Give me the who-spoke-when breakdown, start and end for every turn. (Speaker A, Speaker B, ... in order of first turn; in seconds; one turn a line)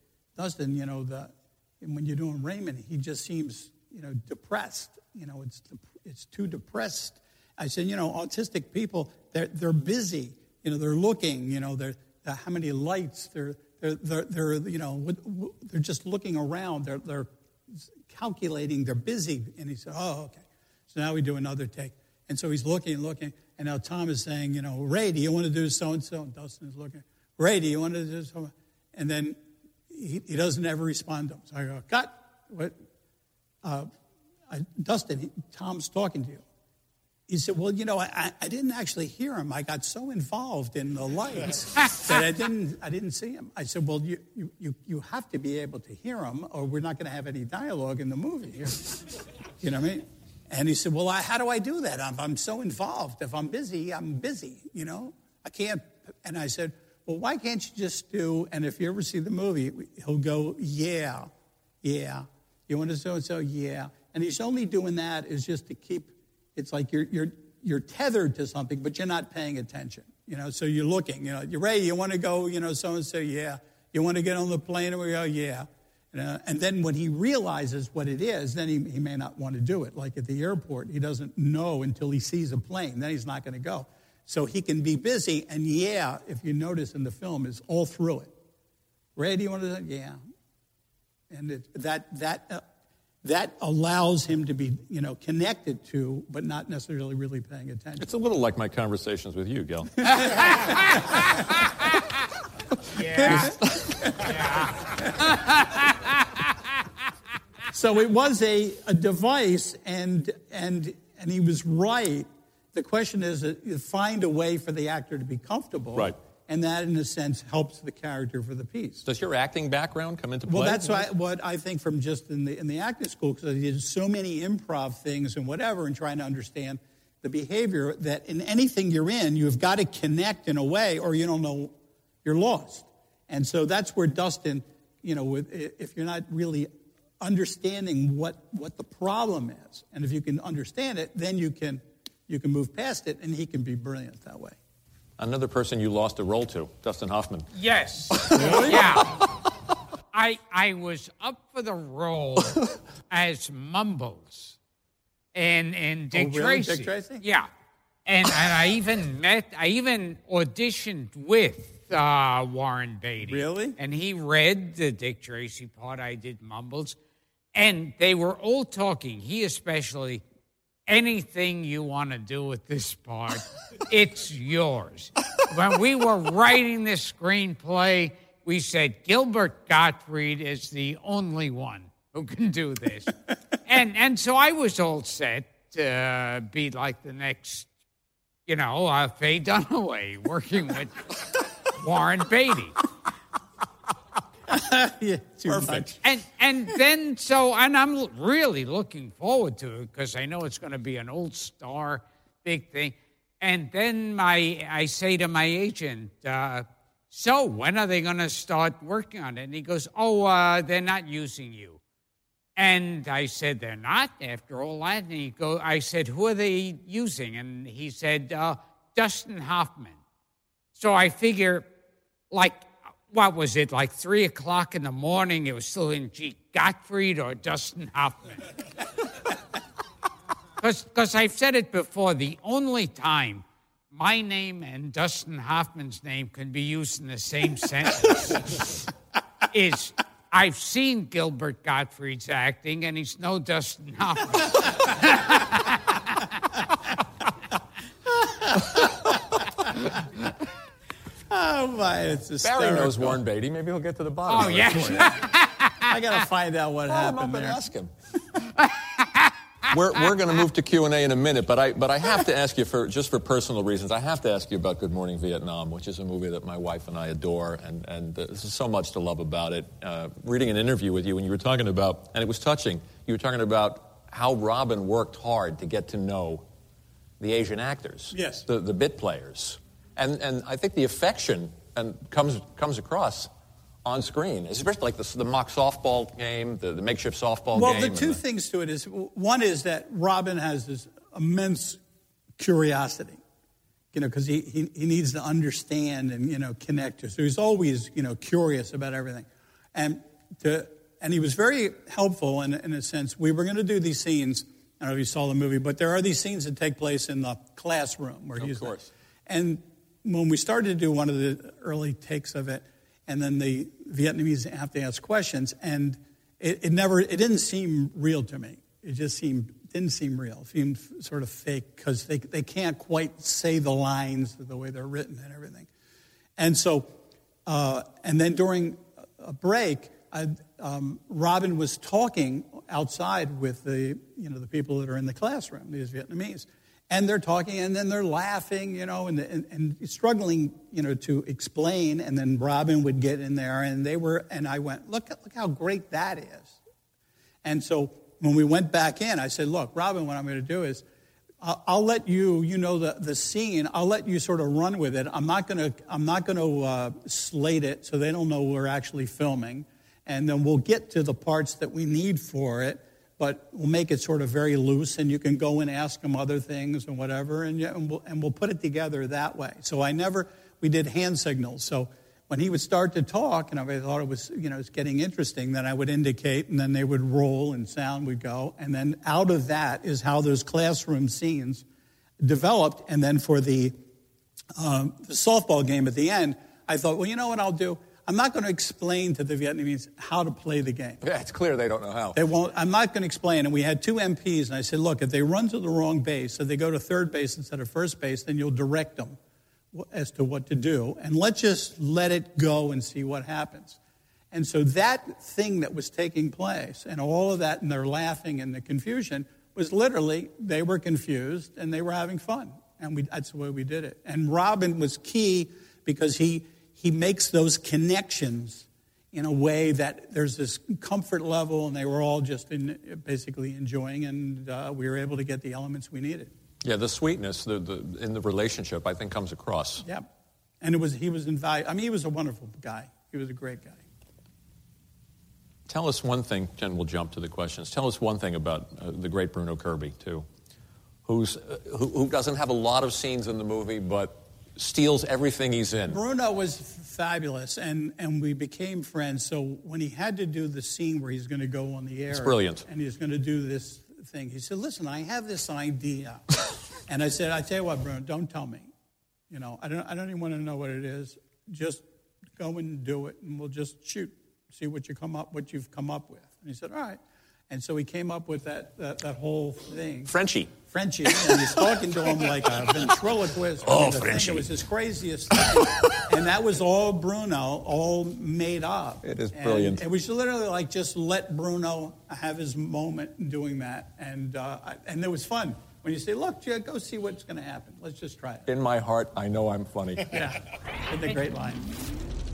Speaker A: 0.4-32.8
Speaker A: 33.6-33.9
Speaker A: 34.5-36.4
Speaker A: 37.3-49.0
Speaker A: 49.6-61.3
Speaker A: 61.8-88.3
Speaker A: 89.2-90.2
Speaker A: 91.3-92.7
Speaker A: 93.2-98.1
Speaker B: 98.0-100.5
Speaker A: 100.0-100.6
Speaker C: 102.9-103.5
Speaker A: 103.2-104.3
Speaker B: 103.2-104.3
Speaker C: 104.2-106.0
Speaker A: 107.7-119.0
Speaker B: 119.1-121.1
Speaker A: 120.5-144.6
Speaker B: 145.2-147.5
Speaker C: 147.6-149.2
Speaker B: 148.2-149.2
Speaker A: 148.3-149.0
Speaker C: 150.1-154.6
Speaker C: 155.3-157.5
Speaker A: 156.1-157.2
Speaker C: 158.1-167.0
Speaker A: 163.2-163.8
Speaker C: 167.6-170.2
Speaker C: 170.9-187.7
Speaker C: 188.5-191.1
Speaker C: 191.7-192.8
Speaker A: 194.5-195.9
Speaker B: 195.5-195.9
Speaker C: 196.0-211.8
Speaker C: 212.6-220.0
Speaker C: 220.8-221.7
Speaker C: 222.3-228.5
Speaker C: 230.6-238.7
Speaker C: 239.5-246.2
Speaker A: 248.1-249.2
Speaker A: 251.3-253.2
Speaker B: 252.4-255.2
Speaker C: 254.3-255.9
Speaker A: 254.7-255.1
Speaker A: 255.8-257.6
Speaker B: 256.9-257.9
Speaker C: 258.8-259.3
Speaker B: 259.7-276.5
Speaker B: 277.2-283.3
Speaker A: 278.1-278.4
Speaker B: 283.9-288.2
Speaker A: 287.5-291.8
Speaker A: 292.4-293.2
Speaker A: 293.9-325.7
Speaker B: 308.4-308.9
Speaker A: 326.4-326.9
Speaker A: 327.5-346.6
Speaker A: 347.4-350.9
Speaker A: 351.4-381.6
Speaker A: 382.2-383.8
Speaker A: 384.6-391.0
Speaker B: 391.0-392.2
Speaker A: 392.1-399.2
Speaker A: 399.7-403.8
Speaker A: 404.3-426.3
Speaker B: 426.6-429.9
Speaker A: 429.8-430.1
Speaker A: 430.6-433.8
Speaker B: 435.7-440.3
Speaker B: 441.1-446.0
Speaker A: 445.9-456.2
Speaker B: 452.1-452.6
Speaker A: 456.9-458.7
Speaker A: 459.3-461.8
Speaker A: 462.4-470.1
Speaker B: 470.1-470.5
Speaker A: 470.7-488.5
Speaker B: 471.1-472.9
Speaker B: 473.6-474.5
Speaker B: 475.4-476.0
Speaker B: 479.0-479.8
Speaker B: 488.5-490.2
Speaker A: 490.1-491.6